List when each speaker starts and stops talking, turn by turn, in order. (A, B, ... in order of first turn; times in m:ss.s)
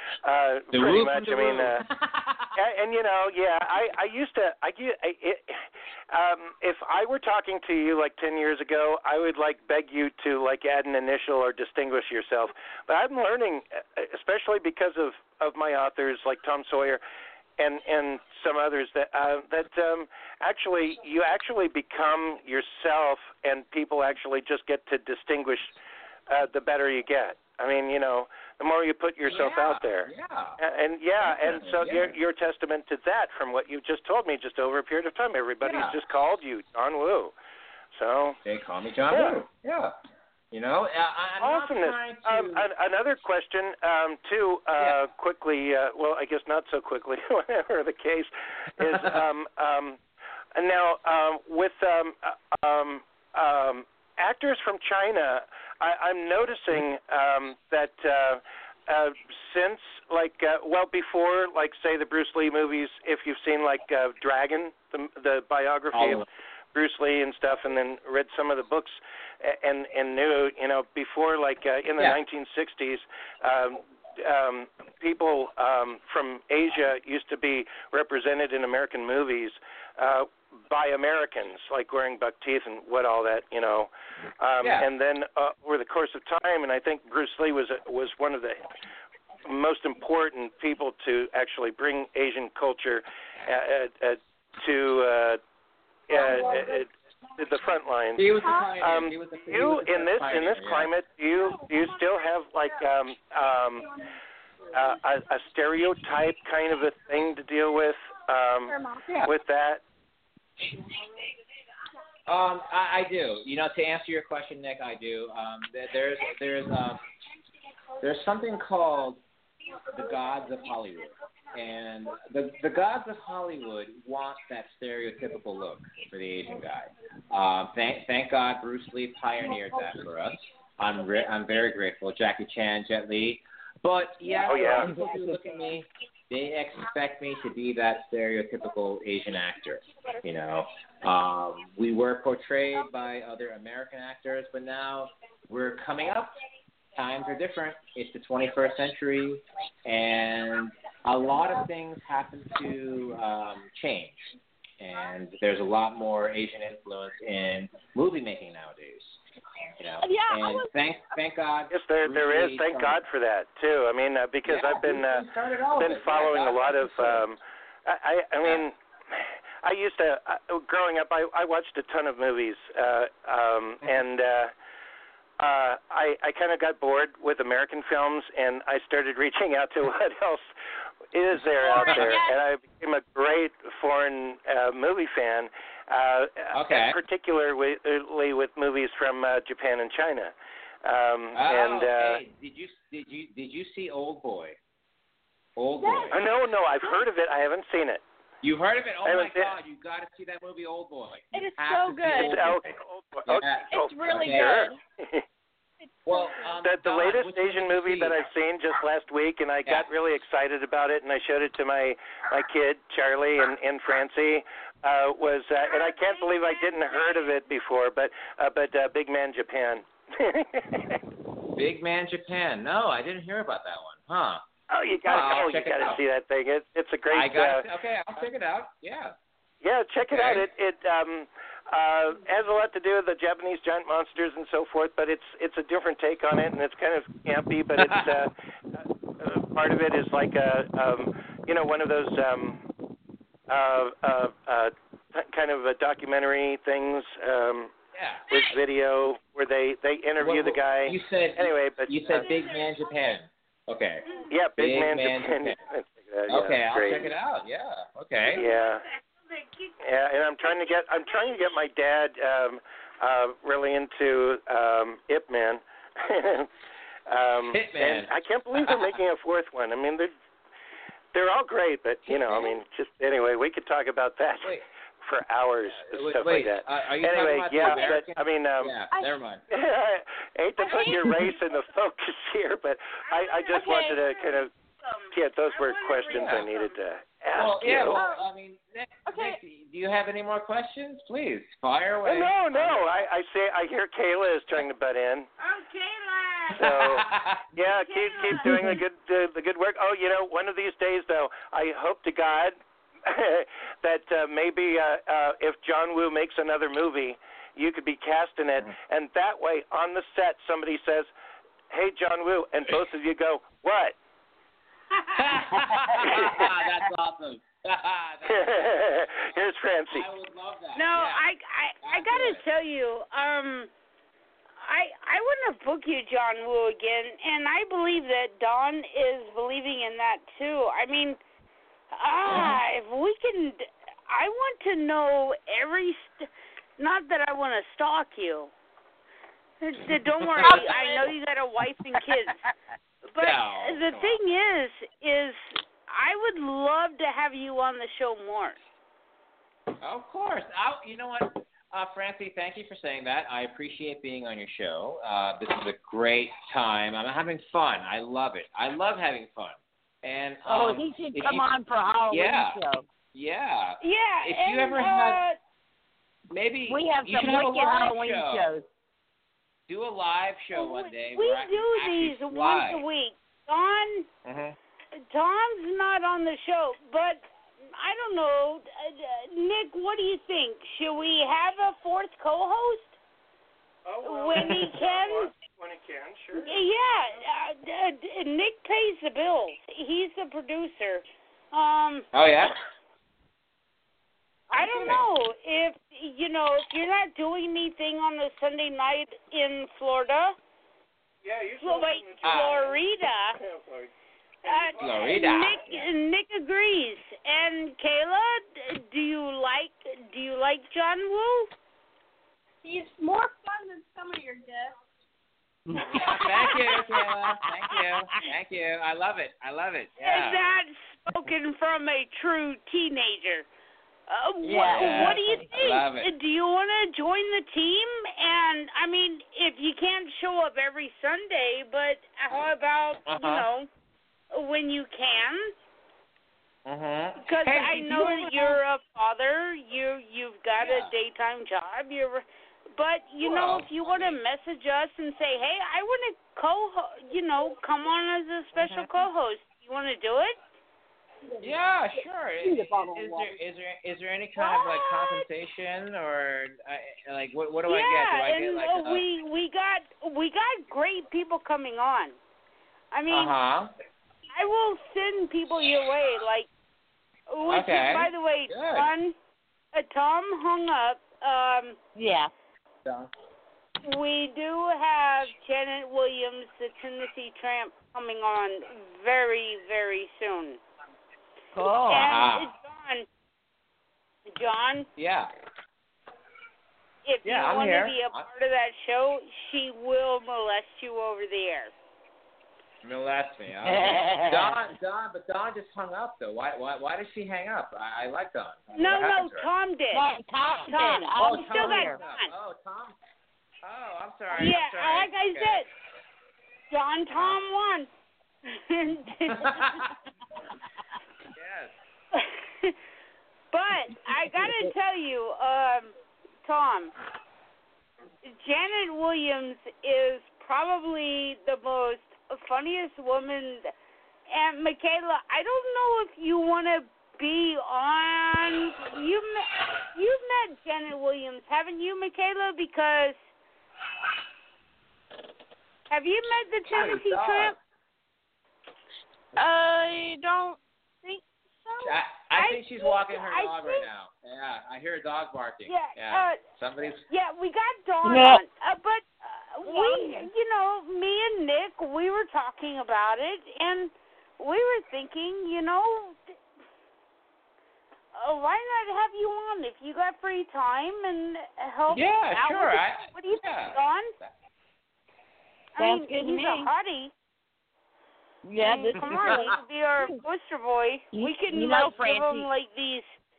0:00.2-0:01.8 A
0:00.7-0:02.5 B
0:02.6-0:05.6 A
0:06.1-0:17.0 A
0:17.6-0:25.7 A
0:26.3-0:37.3 A
0:29.3-0:30.6 B
0:31.2-0:32.1 B
0:35.6-0:36.0 B
0:37.9-0:38.4 A
0:38.4-0:39.9 B
0:39.1-0:39.4 A
0:40.5-0:42.6 B
0:41.4-0:50.0 A
0:48.8-0:49.1 B
0:50.5-1:28.6 A
1:05.9-1:06.2 B
1:24.6-1:24.9 B
1:29.4-1:35.4 A
1:36.1-1:43.8 A
1:38.2-1:40.9 B
1:38.4-1:38.7 C
1:41.4-1:41.7 C
1:44.7-1:49.8 A
1:48.7-1:49.1 C
1:52.3-1:57.0 B
1:58.0-1:59.2 B
1:59.9-2:26.3 B
2:14.4-2:14.9 A
2:14.8-2:15.4 D
2:26.9-2:39.2 B
2:39.8-2:43.0 B
2:40.0-2:40.7 C
2:41.7-2:54.5 A
2:44.4-2:47.3 B
2:55.4-3:00.5 A
3:01.1-3:10.3 A
3:01.6-3:02.4 C
3:01.8-3:02.2 B
3:06.5-3:07.0 B
3:10.8-3:12.2 A
3:11.4-3:14.6 B
3:15.6-3:16.2 B
3:15.7-3:16.1 C
3:16.1-3:18.0 A
3:18.4-3:24.7 B
3:19.0-3:19.5 A
3:21.3-3:22.4 C
3:22.1-3:25.2 A
3:23.7-3:24.8 C
3:25.8-3:26.5 C
3:26.0-3:28.2 B
3:26.6-3:41.0 A
3:35.6-3:37.4 E
3:41.5-3:44.4 B
3:44.7-3:47.6 A
3:45.1-3:46.0 B
3:47.1-3:49.1 B
3:49.6-4:02.6 A
3:50.1-3:50.4 B
4:03.5-4:07.7 A
4:07.9-4:08.4 B
4:08.3-4:12.3 A
4:10.2-4:15.6 B
4:14.3-4:17.1 A
4:16.3-4:18.4 B
4:18.3-4:18.8 A
4:18.3-4:19.7 E
4:19.8-4:26.5 A
4:20.4-4:21.4 E
4:27.1-4:30.1 A
4:27.5-4:28.9 B
4:31.1-4:38.8 A
4:32.1-4:32.5 B
4:35.8-4:39.4 B
4:37.6-4:38.0 C
4:38.9-4:39.2 C
4:39.5-4:44.5 A
4:40.6-4:41.4 C
4:43.0-4:46.8 E
4:43.5-4:44.0 C
4:45.1-4:48.0 A
4:46.1-4:46.4 B
4:47.4-4:53.0 B
4:47.9-4:48.2 C
4:49.0-4:49.4 C
4:52.0-4:55.3 A
4:55.4-4:56.6 E
4:56.6-5:11.1 A
4:56.6-4:57.5 B
4:57.7-4:58.5 E
5:11.7-5:14.0 A
5:15.1-5:19.3 B
5:18.2-5:20.1 A
5:19.9-5:21.2 B
5:20.7-5:23.7 E
5:21.8-5:22.4 B
5:24.6-5:31.2 E
5:31.9-5:38.5 E
5:39.6-5:42.4 E
5:40.4-5:41.0 B
5:43.1-5:48.6 E
5:43.2-5:44.2 B
5:49.8-6:01.5 B
6:00.4-6:02.8 D
6:02.1-6:02.6 B
6:03.1-6:05.2 B
6:03.8-6:05.4 E
6:06.3-6:08.5 B
6:06.7-6:08.6 D
6:09.7-6:12.8 B
6:10.5-6:14.1 E
6:14.2-6:14.6 B
6:15.0-6:23.0 E
6:23.8-6:26.5 A
6:24.0-6:25.3 E
6:26.4-6:32.1 E
6:32.1-6:32.5 B
6:34.5-6:40.3 E
6:34.6-6:35.0 B
6:41.2-6:42.7 A
6:41.6-6:43.4 E
6:42.2-6:42.6 B
6:43.4-6:43.9 A
6:44.4-6:51.5 E
6:44.6-6:44.9 A
6:44.8-6:45.9 B
6:52.6-6:54.7 C
6:55.7-6:56.5 D
6:55.8-7:00.4 B
7:00.0-7:03.5 E
7:04.1-7:13.7 E
7:04.4-7:05.5 D
7:04.5-7:06.1 B
7:13.1-7:13.4 B
7:14.3-7:15.5 E
7:16.6-7:18.6 B
7:17.2-7:22.2 E
7:20.6-7:20.9 B
7:22.8-7:30.4 E
7:23.2-7:24.2 B
7:28.5-7:28.9 B
7:31.3-7:33.3 C
7:31.4-7:39.0 B
7:34.4-7:34.8 E
7:37.7-7:42.2 E
7:42.9-7:43.3 E
7:43.1-7:43.7 B
7:44.3-7:46.5 E
7:47.3-7:49.1 E
7:47.4-7:48.9 B
7:49.7-7:51.8 E
7:51.9-7:52.3 D
7:52.8-7:53.1 B
7:53.8-8:00.6 E
8:01.5-8:02.1 D
8:01.8-8:03.0 E
8:01.9-8:02.5 B
8:04.3-8:04.9 E
8:05.0-8:05.3 B
8:07.0-8:11.7 E
8:07.2-8:08.3 B
8:12.8-8:19.5 B
8:13.6-8:14.6 D
8:18.7-8:20.0 E
8:19.9-8:22.0 D
8:20.6-8:22.3 E
8:21.2-8:23.0 B
8:23.6-8:25.6 B
8:24.3-8:25.7 E
8:26.7-8:27.9 E
8:27.1-8:27.4 B
8:28.5-8:29.7 E
8:29.3-8:29.9 B
8:31.4-8:31.8 B
8:32.1-8:32.7 E
8:33.5-8:35.9 E
8:36.4-8:36.9 E
8:38.2-8:43.7 E
8:44.3-8:53.2 E
8:55.9-8:57.6 E
8:56.7-8:57.6 B
8:59.4-9:02.0 C
9:01.8-9:07.0 B
9:02.3-9:03.8 E
9:05.7-9:06.4 E
9:07.1-9:16.2 E
9:08.0-9:08.4 D
9:09.6-9:10.2 D
9:18.1-9:24.1 E
9:21.9-9:24.3 B
9:25.8-9:27.1 E
9:25.8-9:26.7 D
9:28.4-9:30.1 D
9:28.6-9:33.1 E
9:31.1-9:32.5 D